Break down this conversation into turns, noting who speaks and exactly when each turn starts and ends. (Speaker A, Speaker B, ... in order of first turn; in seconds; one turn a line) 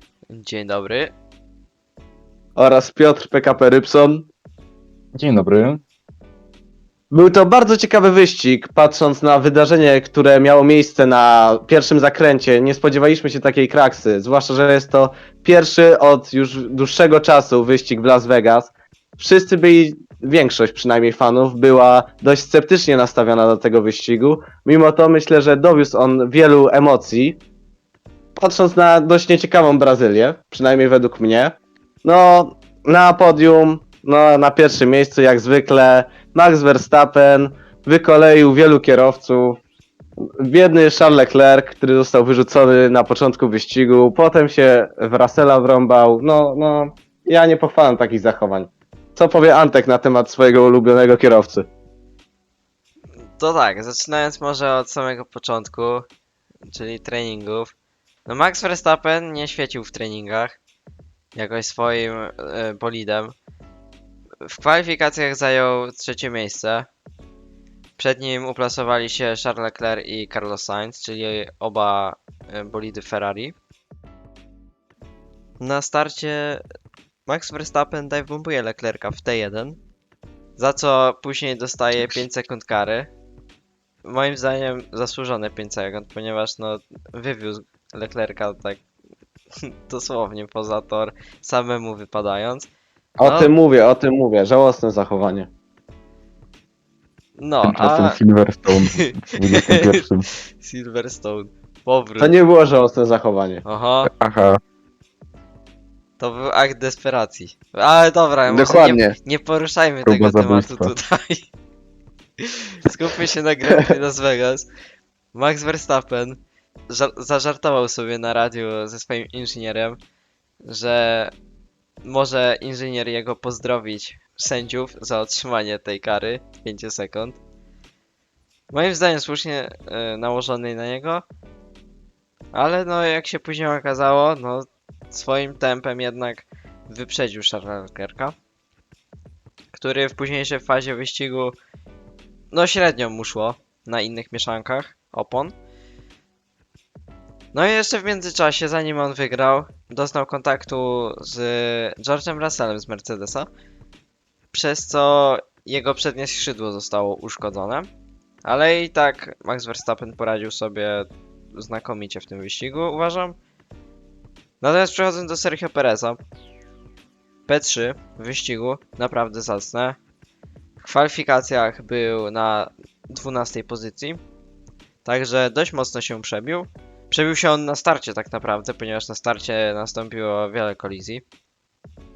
Speaker A: 0.3-1.1
Speaker B: 2.5-4.3
Speaker C: 5.1-5.8
Speaker B: 7.1-27.4
Speaker B: 28.4-39.6
Speaker B: 40.4-51.7
Speaker A: 53.4-56.1
Speaker A: 56.7-57.7
Speaker A: 58.2-60.5
Speaker A: 61.4-63.3
Speaker A: 64.4-66.9
Speaker A: 68.0-73.5
Speaker A: 75.6-76.6
Speaker A: 77.3-79.8
Speaker A: 80.6-83.1
Speaker A: 84.0-88.8
Speaker A: 89.6-92.7
Speaker B: 93.2-95.5
Speaker A: 93.2-93.5
Speaker A: 97.4-100.0
Speaker C: 97.6-100.3
Speaker A: 100.6-102.3
Speaker B: 102.2-103.6
Speaker A: 103.6-104.1
Speaker C: 104.0-104.6
Speaker A: 106.2-111.5
Speaker B: 108.5-109.1
Speaker C: 110.0-110.9
Speaker A: 112.4-114.7
Speaker A: 115.3-120.0
Speaker A: 120.6-121.3
Speaker A: 122.0-127.4
Speaker A: 128.7-131.2
Speaker A: 132.5-138.3
Speaker A: 139.7-141.6
Speaker A: 142.5-145.5
Speaker A: 147.5-153.5
Speaker A: 154.5-157.9
Speaker A: 158.4-163.4
Speaker A: 164.6-166.2
Speaker A: 167.5-170.0
Speaker A: 170.8-174.2
Speaker A: 175.0-181.2